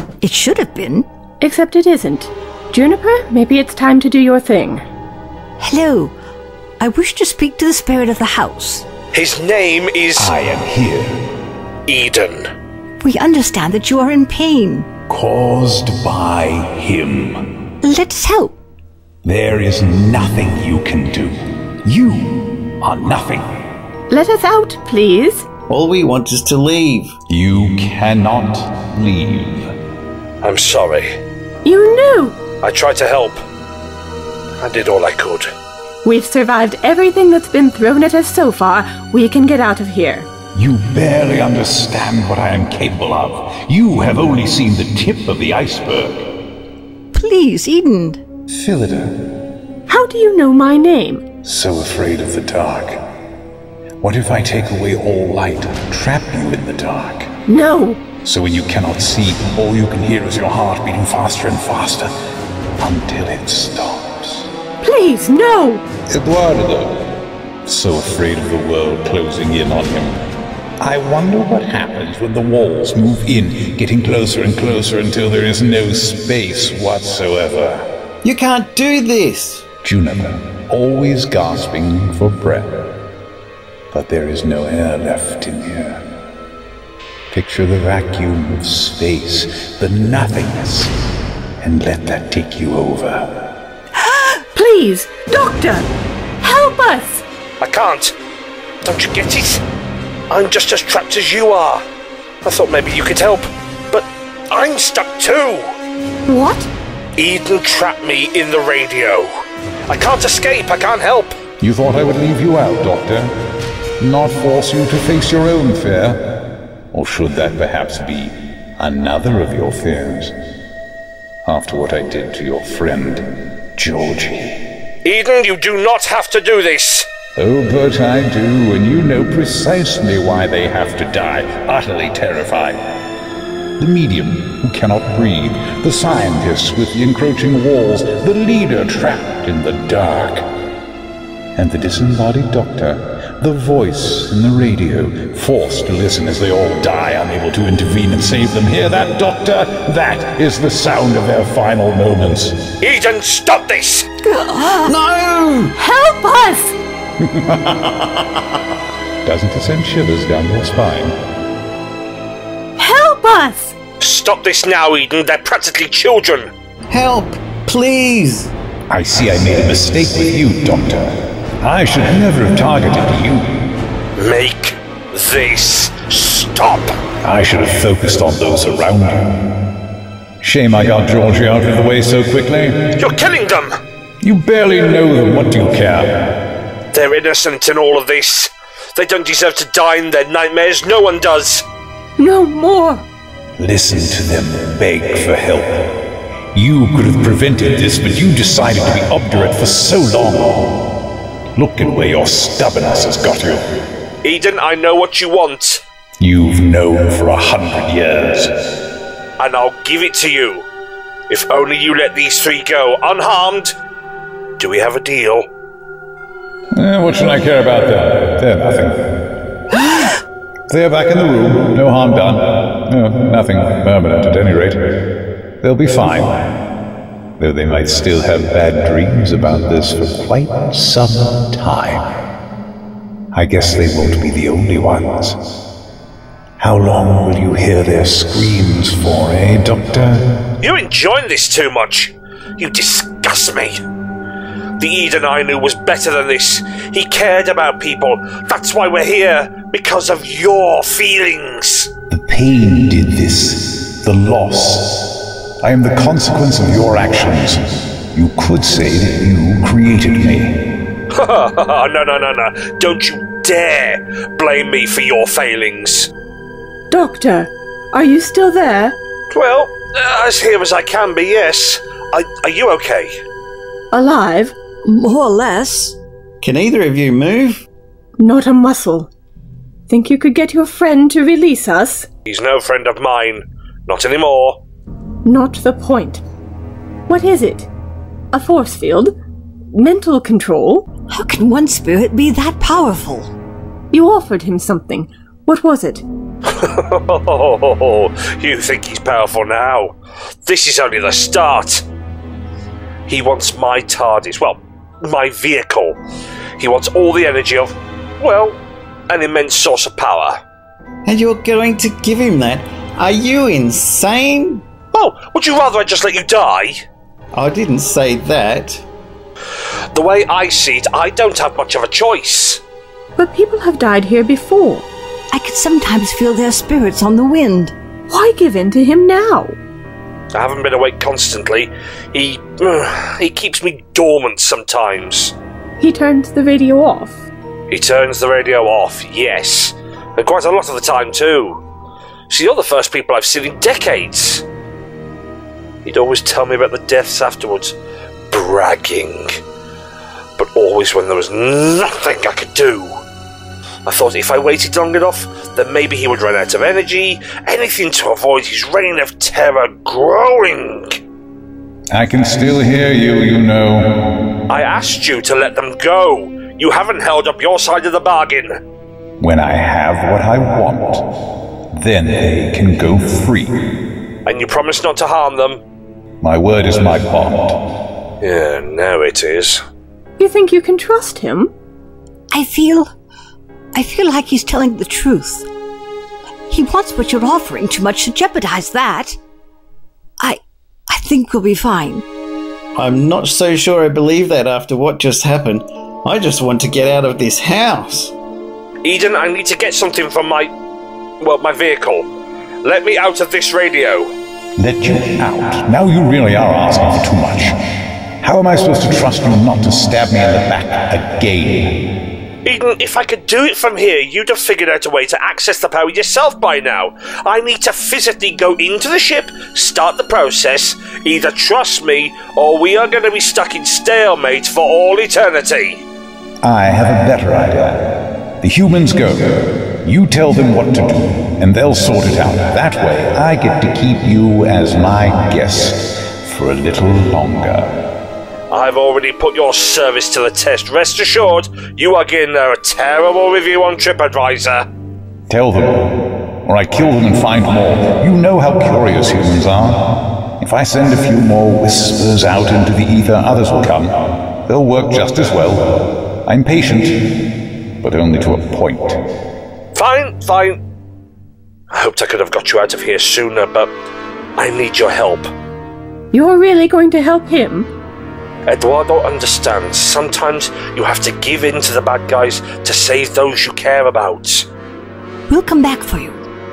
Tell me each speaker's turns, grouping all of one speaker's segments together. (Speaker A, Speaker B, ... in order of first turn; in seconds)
Speaker A: 0.2-1.1, 5.6-6.1, 6.8-8.9, 13.0-14.9, 17.8-18.6, 47.1-48.2, 106.3-106.7, 274.8-276.0, 291.1-293.3, 325.3-327.7, 382.3-382.9, 383.7-385.4, 386.5-389.2, 390.2-392.0, 475.3-476.2
Speaker B: 1.4-4.8, 24.1-25.5, 31.6-32.4, 36.0-40.3, 49.9-51.2, 57.5-58.0, 64.8-65.8, 94.5-95.9, 96.4-97.2, 155.8-156.8, 162.8-163.8, 192.2-193.1, 266.9-269.0, 273.9-274.6, 278.2-279.1, 279.9-282.1, 285.2-286.2, 287.1-287.7, 288.3-289.1, 289.7-290.9, 293.9-296.0, 323.2-324.9, 328.1-329.5, 335.8-337.2, 380.2-381.5, 466.1-467.7
Speaker C: 9.1-10.3, 11.9-12.5, 30.4-31.1, 32.6-33.4, 34.6-35.5, 97.6-98.1, 98.8-99.6, 100.3-101.8, 102.4-105.7, 107.2-109.3, 109.9-111.4, 125.0-127.1, 152.8-154.1, 164.0-166.5, 174.2-176.9, 183.0-183.7, 186.9-191.6, 204.2-205.8, 209.4-210.7, 211.3-213.8, 214.6-215.5, 240.6-243.8, 244.8-251.9, 261.1-266.1, 269.3-273.1, 282.2-284.6, 296.5-301.8, 303.1-306.0, 306.6-310.4, 314.9-316.8, 319.9-322.6, 330.3-335.3, 337.7-341.6, 342.3-344.4, 345.8-347.7, 348.3-349.4, 350.4-352.9, 353.9-361.0, 364.5-368.6, 374.2-375.6, 378.2-379.6, 398.8-400.5, 401.2-402.1, 402.6-404.1, 412.4-425.8, 438.5-444.6, 459.7-460.6, 461.7-463.7, 464.4-465.3, 468.5-474.5
Speaker D: 10.2-11.2, 15.1-17.6, 19.2-23.7, 27.3-29.8, 40.5-46.3, 48.5-49.3, 51.4-53.1, 54.0-57.3, 58.2-62.1, 62.8-64.5, 66.1-77.9, 79.8-82.9, 83.9-86.1, 87.3-91.0, 91.6-93.5, 111.6-113.3, 114.0-120.4, 121.4-124.7, 127.3-133.0, 133.8-140.5, 141.5-152.7, 157.2-158.0, 159.2-161.2, 168.9-173.7, 177.2-179.5, 180.4-183.0, 184.2-186.4, 193.6-200.9, 201.5-203.9, 206.2-208.6, 216.7-219.8, 220.7-225.1, 225.6-226.6, 227.4-232.3, 233.3-235.6, 236.6-240.3, 252.1-260.8, 361.9-364.3, 369.2-373.7, 376.2-377.7, 404.6-407.6, 408.2-411.9, 426.4-437.9, 445.3-457.3, 457.8-459.1
Speaker E: 25.7-27.1, 78.2-79.7, 154.8-155.8, 166.9-168.5, 276.4-277.6, 311.1-314.6, 317.3-318.8, 392.8-398.1